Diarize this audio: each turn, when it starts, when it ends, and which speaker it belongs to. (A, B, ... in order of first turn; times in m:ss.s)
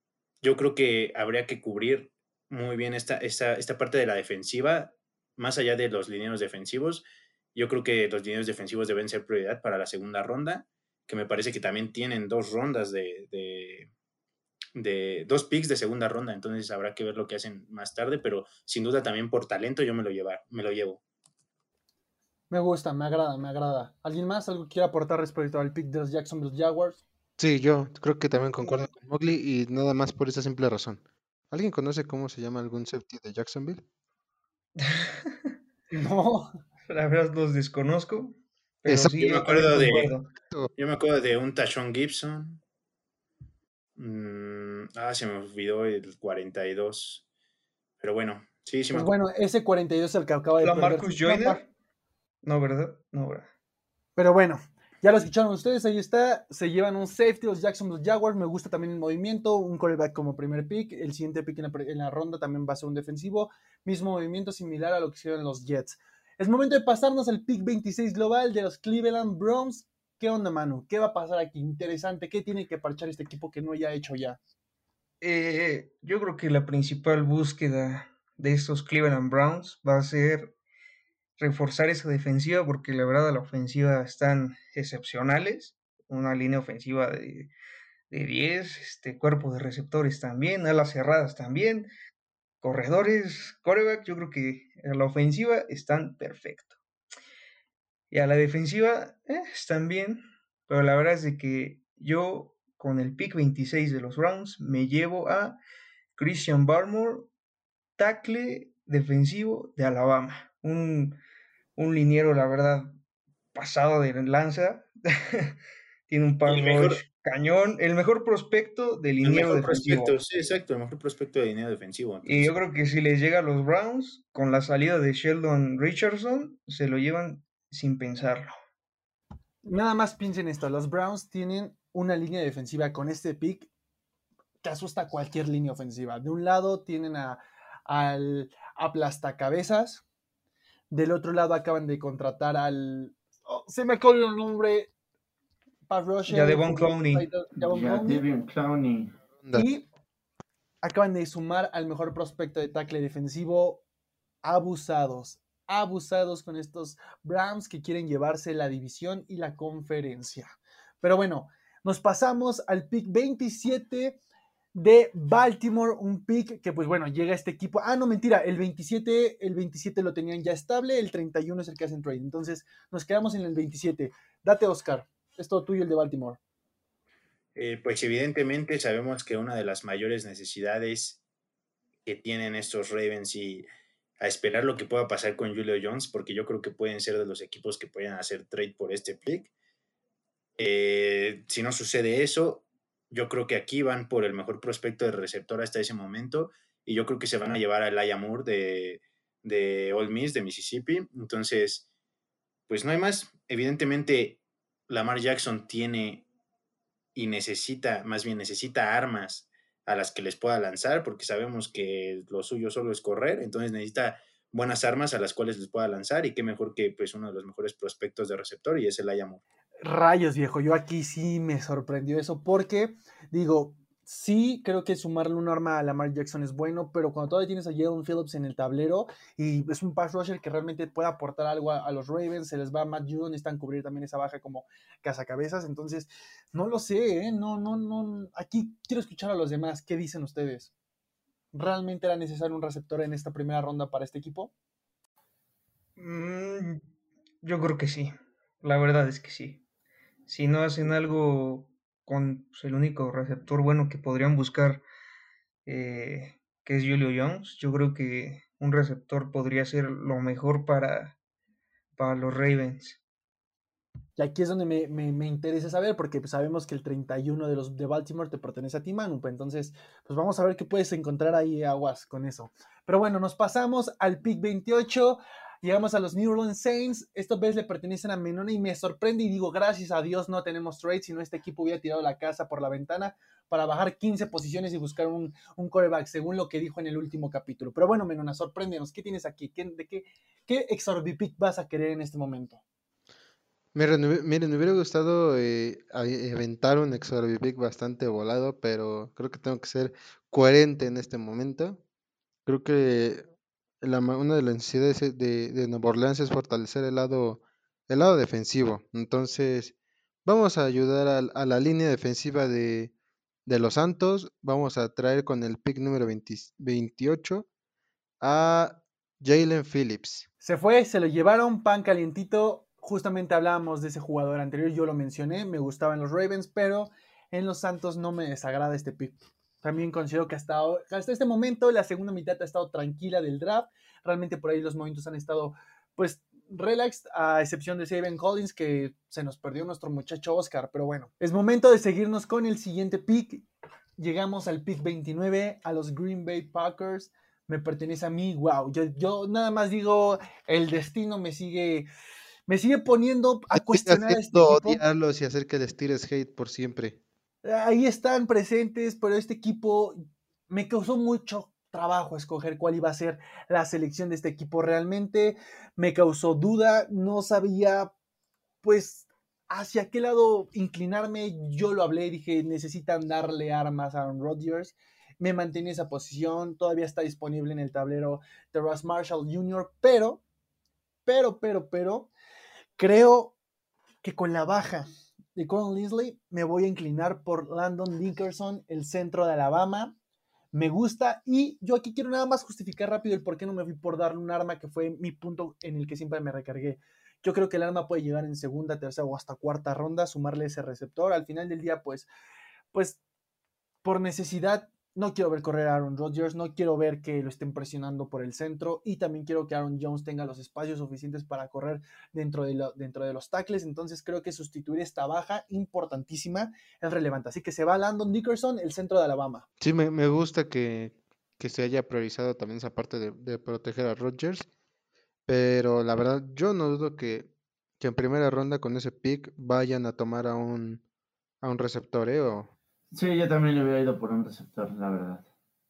0:00.4-0:13.9 A
0:14.8-0:21.0 A
0:22.5-0:27.0 B
0:27.4-0:33.8 C
0:34.8-0:35.5 D
0:35.9-0:36.5 B
0:36.9-0:40.3 D
0:38.9-0:40.7 C
0:39.2-0:40.1 A
0:40.8-0:42.6 A
0:44.0-0:47.2 A
0:48.0-0:49.1 A
0:48.9-0:51.6 B
0:50.6-0:51.7 D
0:52.4-0:53.5 D
0:54.2-1:14.4 B
1:15.2-1:20.5 D
1:21.4-1:27.5 D
1:28.1-1:31.9 D
1:32.6-1:36.7 D
1:38.1-1:45.6 D
1:46.2-1:47.3 D
1:48.0-1:51.2 D
1:51.8-1:52.9 D
1:53.5-1:55.5 D
1:56.1-2:00.2 D
1:56.5-1:57.0 A
1:59.2-2:02.5 A
2:02.2-2:08.5 D
2:09.6-2:13.7 B
2:14.6-2:20.0 B
2:20.9-2:24.9 B
2:25.9-2:28.2 B
2:26.2-2:27.3 D
2:27.6-2:29.2 E
2:29.4-2:29.7 C
2:29.5-2:29.8 B
2:30.8-2:33.8 B
2:34.4-2:44.2 B
2:44.7-2:56.4 B
2:57.5-3:01.2 A
3:02.0-3:03.6 A
3:04.2-3:09.5 A
3:10.6-3:21.8 A
3:22.7-3:26.2 A
3:27.1-3:39.4 A
3:39.8-4:00.7 B
4:01.5-4:04.5 B
4:06.0-4:06.8 D
4:07.4-4:09.6 D
4:10.3-4:14.8 D
4:15.6-4:21.2 D
4:22.0-4:23.0 D
4:24.2-4:52.6 B
4:53.7-5:01.8 C
5:02.4-5:03.2 C
5:03.8-5:09.7 C
5:10.2-5:12.9 C
5:13.4-5:17.5 C
5:18.2-5:20.2 C
5:20.4-5:43.4 B
5:44.0-5:51.9 B
5:52.5-5:54.8 B
5:53.5-5:57.0 C
5:57.4-6:00.0 B
6:00.5-6:07.9 B
6:08.6-6:20.2 B
6:21.0-6:22.1 B
6:22.8-6:23.3 B
6:24.0-6:30.0 B
6:30.5-6:42.1 B
6:42.7-6:43.0 B
6:43.8-6:59.4 B
6:59.6-7:04.5 C
7:05.3-7:10.8 C
7:11.4-7:12.5 C
7:12.9-7:15.2 E